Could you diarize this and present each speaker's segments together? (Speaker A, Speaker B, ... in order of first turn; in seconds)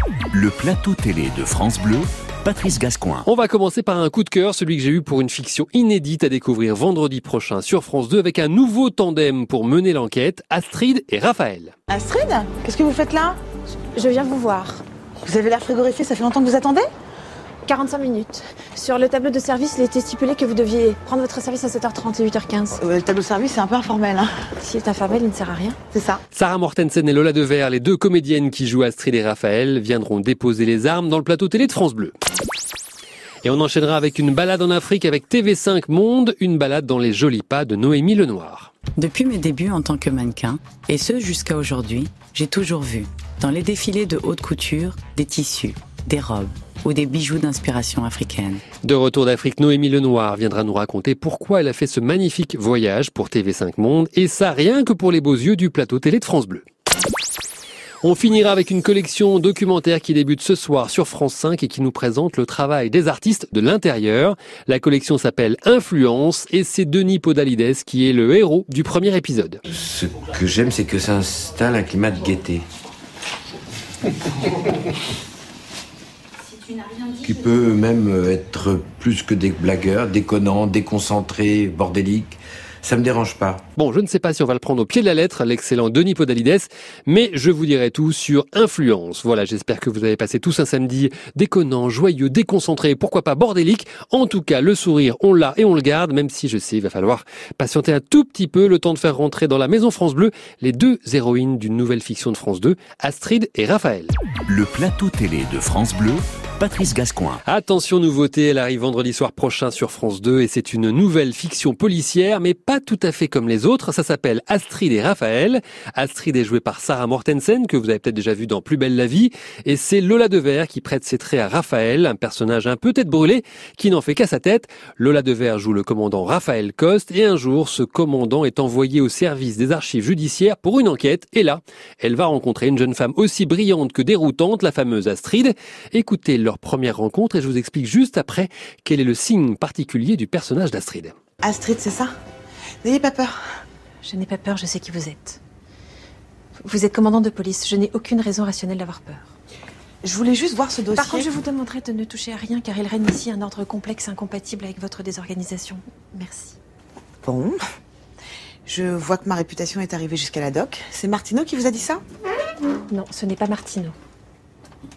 Speaker A: 0.3-3.3, 104.5-107.4
Speaker B: 3.3-11.7, 26.3-32.1, 33.4-38.7, 48.8-56.6, 58.0-69.6, 83.8-104.1, 107.5-141.2
Speaker C: 11.9-13.4, 15.2-16.9, 22.8-24.4, 25.9-26.2, 141.4-142.2, 142.8-143.4, 150.0-151.3, 157.2-157.6, 158.7-162.0
Speaker D: 14.0-14.8, 17.7-22.8, 24.6-25.8, 144.0-145.4, 146.6-149.3, 151.0-156.6, 162.9-163.9
Speaker E: 39.0-48.6
Speaker F: 69.7-72.6, 77.2-83.6